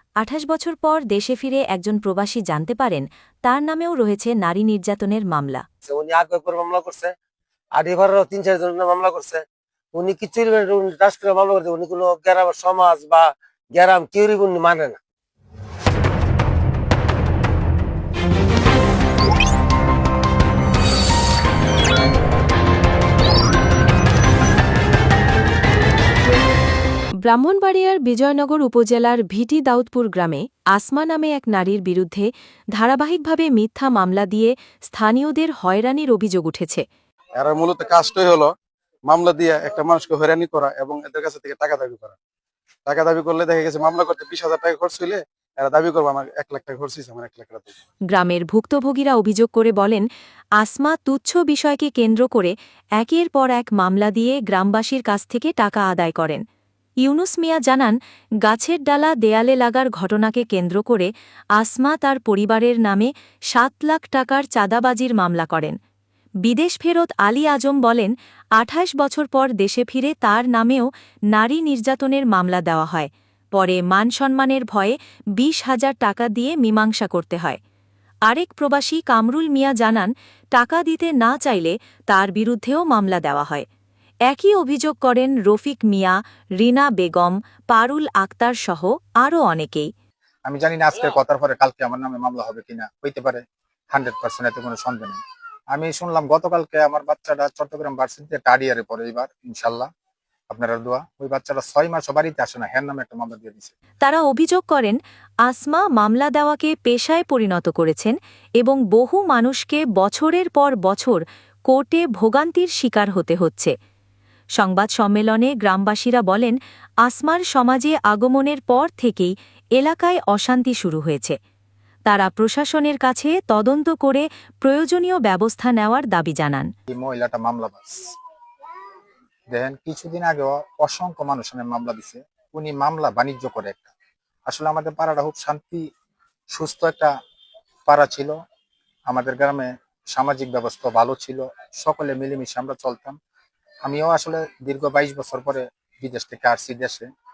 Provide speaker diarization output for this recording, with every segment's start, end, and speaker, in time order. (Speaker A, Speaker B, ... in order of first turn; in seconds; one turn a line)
Speaker A: 0.2-5.6
Speaker B: 5.9-7.1
Speaker B: 7.8-15.0
Speaker A: 27.2-36.9
Speaker C: 37.4-38.5
Speaker C: 39.1-42.2
Speaker C: 42.9-47.8
Speaker A: 48.1-50.1
Speaker A: 50.6-56.4
Speaker A: 57.0-58.0
Speaker A: 58.5-65.8
Speaker A: 66.5-77.6
Speaker A: 78.3-83.7
Speaker A: 84.3-89.9
Speaker D: 90.5-95.2
Speaker D: 95.7-99.9
Speaker D: 100.5-103.7
Speaker A: 104.0-113.7
Speaker A: 114.6-121.4
Speaker A: 122.1-126.7
Speaker D: 126.9-128.1
Speaker D: 129.5-133.9
Speaker D: 134.5-135.8
Speaker D: 136.5-137.1
Speaker D: 137.9-138.3
Speaker D: 139.1-143.2
Speaker D: 143.8-147.1